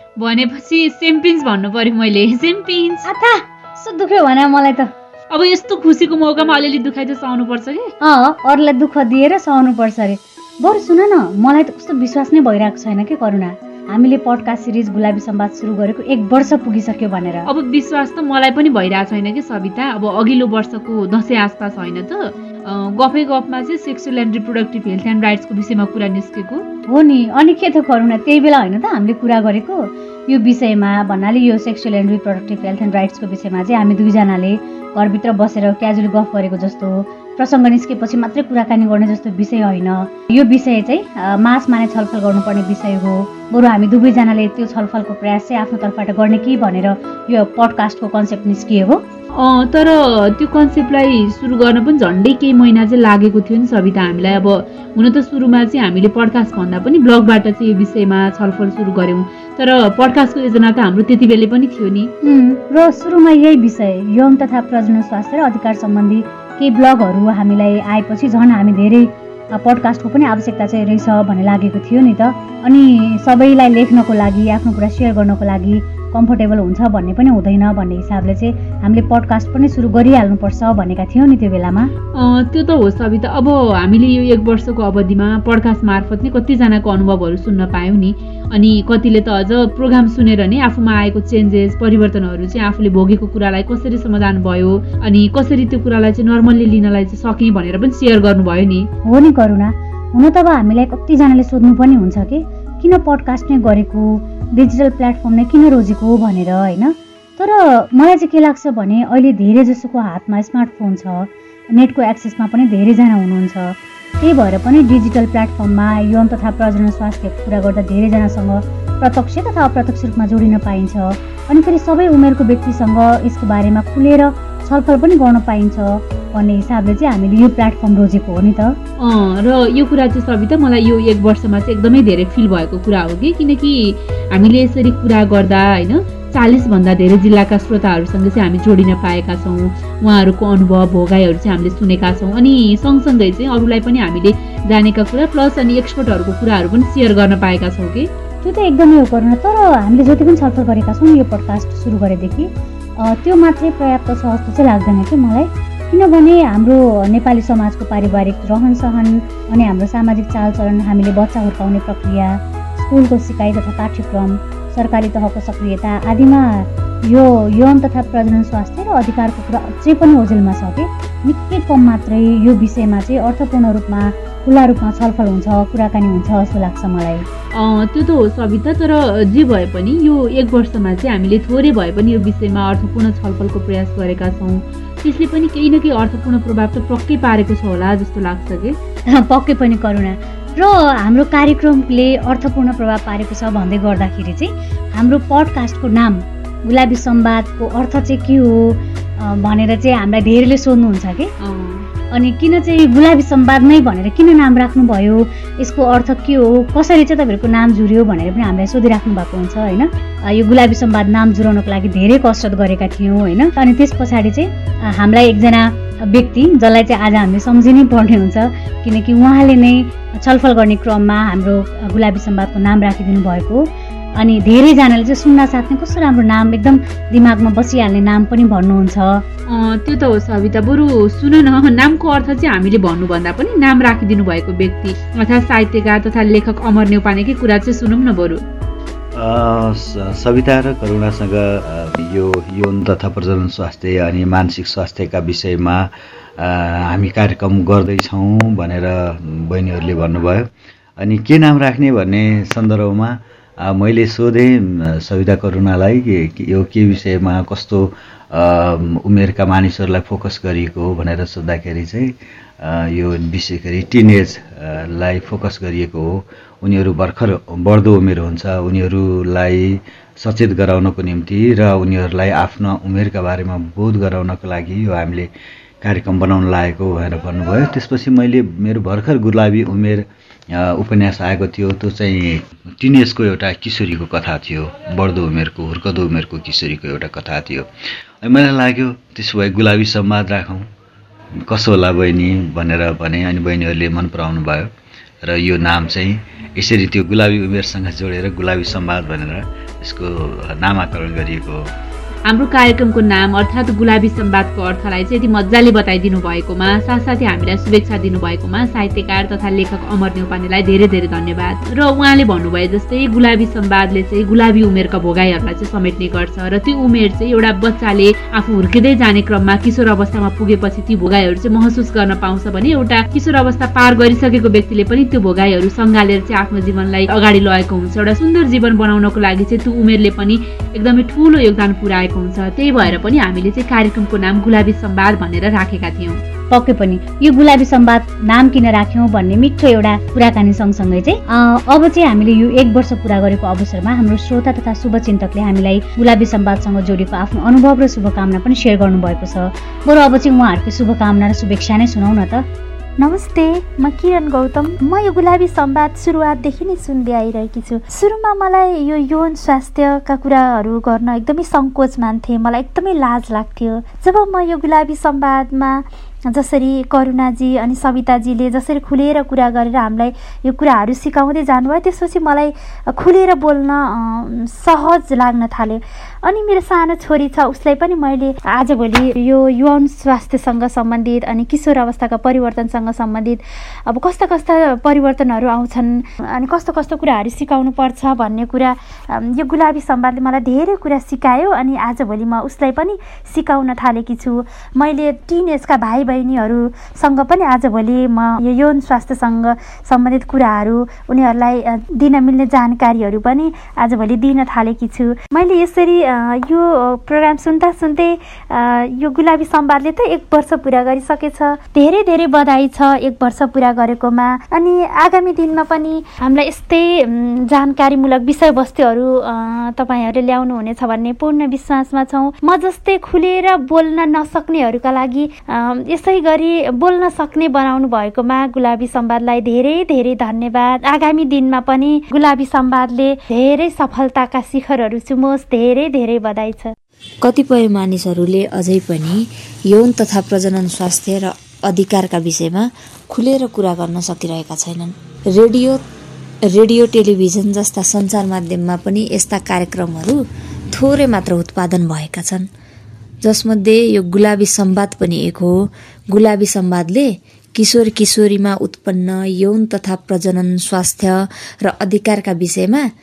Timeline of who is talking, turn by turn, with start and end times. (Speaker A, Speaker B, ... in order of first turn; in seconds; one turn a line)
Speaker A: 0.2-3.0
Speaker B: 3.0-4.9
Speaker A: 5.3-7.9
Speaker B: 8.0-17.4
Speaker A: 17.5-26.6
Speaker B: 26.9-49.0
Speaker A: 49.4-62.1
Speaker B: 62.2-81.9
Speaker A: 82.2-98.9
Speaker B: 99.0-128.8
Speaker A: 129.0-148.1
Speaker B: 148.4-177.2
Speaker A: 177.5-188.8
Speaker B: 189.2-201.3
Speaker A: 201.4-201.9
Speaker B: 202.1-223.6
Speaker B: 224.2-229.2
Speaker A: 229.5-238.4
Speaker C: 239.1-250.5
Speaker C: 251.0-275.3
Speaker C: 275.8-287.7
Speaker C: 288.2-290.6
Speaker C: 291.5-294.7
Speaker C: 295.2-301.6
Speaker A: 302.3-336.2
Speaker B: 336.5-352.4
Speaker D: 353.0-436.7
Speaker E: 437.2-445.8
Speaker E: 446.5-452.5
Speaker E: 453.2-462.9